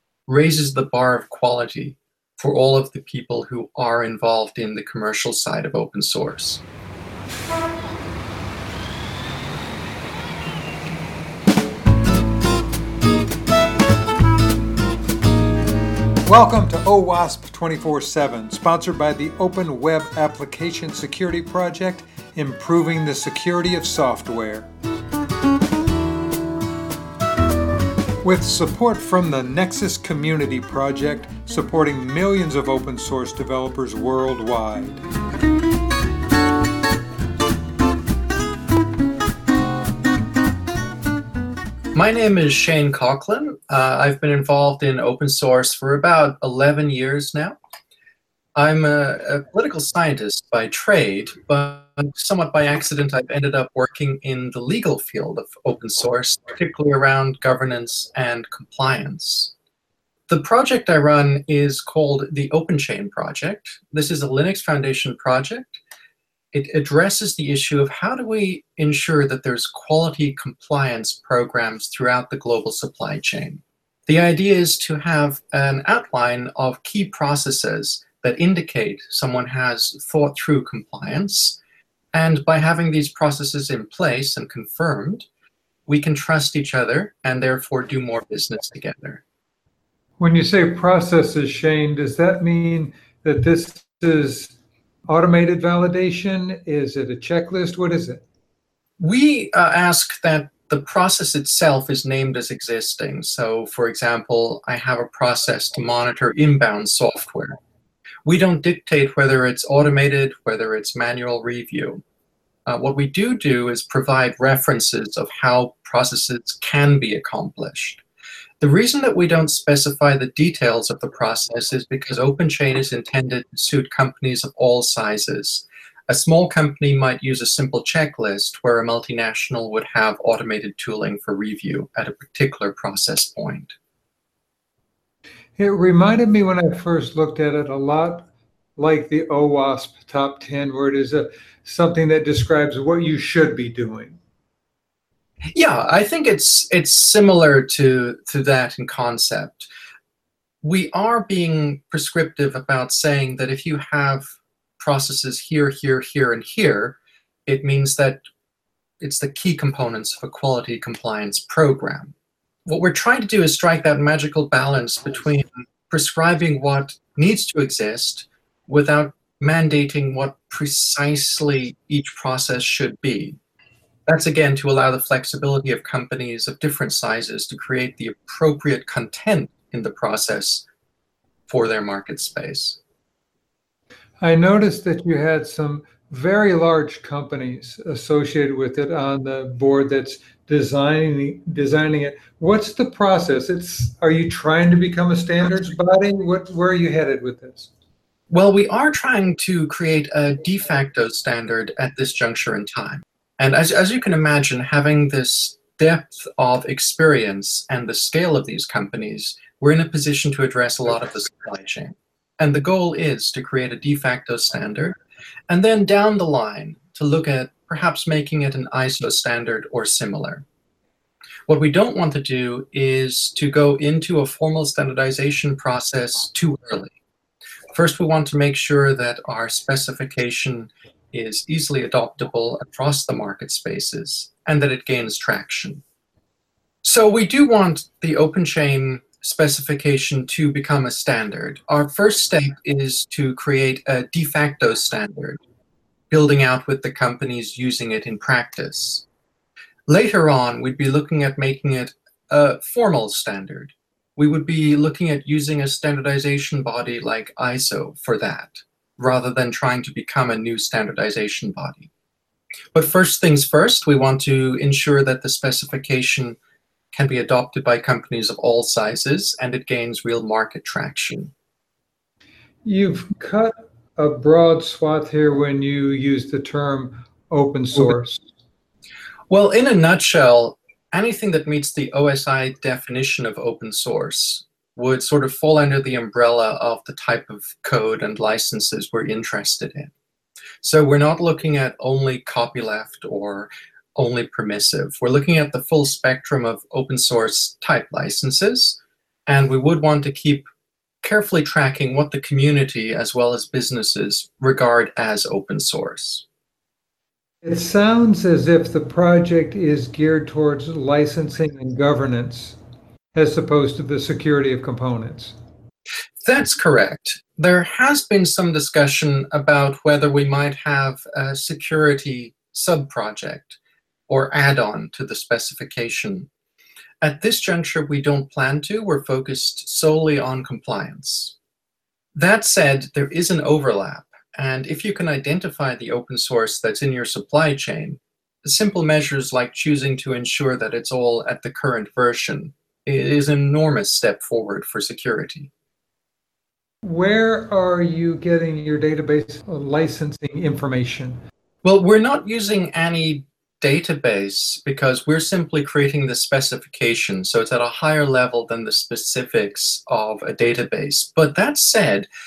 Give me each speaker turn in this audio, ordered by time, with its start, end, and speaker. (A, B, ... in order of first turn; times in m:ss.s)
0:00.3-0:06.6 A
0:16.2-0:24.7 B
0:28.2-0:35.0 B
0:41.9-0:47.6 A
0:48.6-0:59.5 A
1:00.3-1:05.8 A
1:06.5-1:21.6 A
1:22.1-1:25.3 A
1:25.9-1:29.2 A
1:30.2-1:34.5 B
1:35.1-1:38.2 B
1:39.0-1:47.6 A
1:48.3-1:52.0 A
1:52.7-1:58.0 A
1:58.6-2:13.8 A
2:15.6-2:24.2 B
2:25.5-2:29.7 A
2:30.6-2:34.2 A
2:34.8-2:38.2 A
2:39.0-2:42.1 A
2:42.7-2:53.4 A
2:54.1-3:00.6 A
3:01.5-3:02.8 A
3:04.2-3:17.7 B
3:18.3-3:35.0 A
3:35.5-3:40.4 A
3:41.5-3:47.0 A
3:47.7-3:55.8 A
3:56.8-4:05.4 A
4:06.1-4:09.0 A
4:09.9-4:21.9 A
4:22.7-4:26.4 A
4:26.9-4:31.3 A
4:32.6-4:38.2 B
4:39.3-4:49.9 A
4:50.6-5:00.5 A
5:01.0-5:06.2 A
5:07.4-5:12.6 B
5:13.1-5:15.3 B
5:16.2-5:26.3 A
5:27.0-5:31.3 A
5:32.2-5:45.5 A
5:46.8-5:51.2 B
5:51.6-6:02.1 A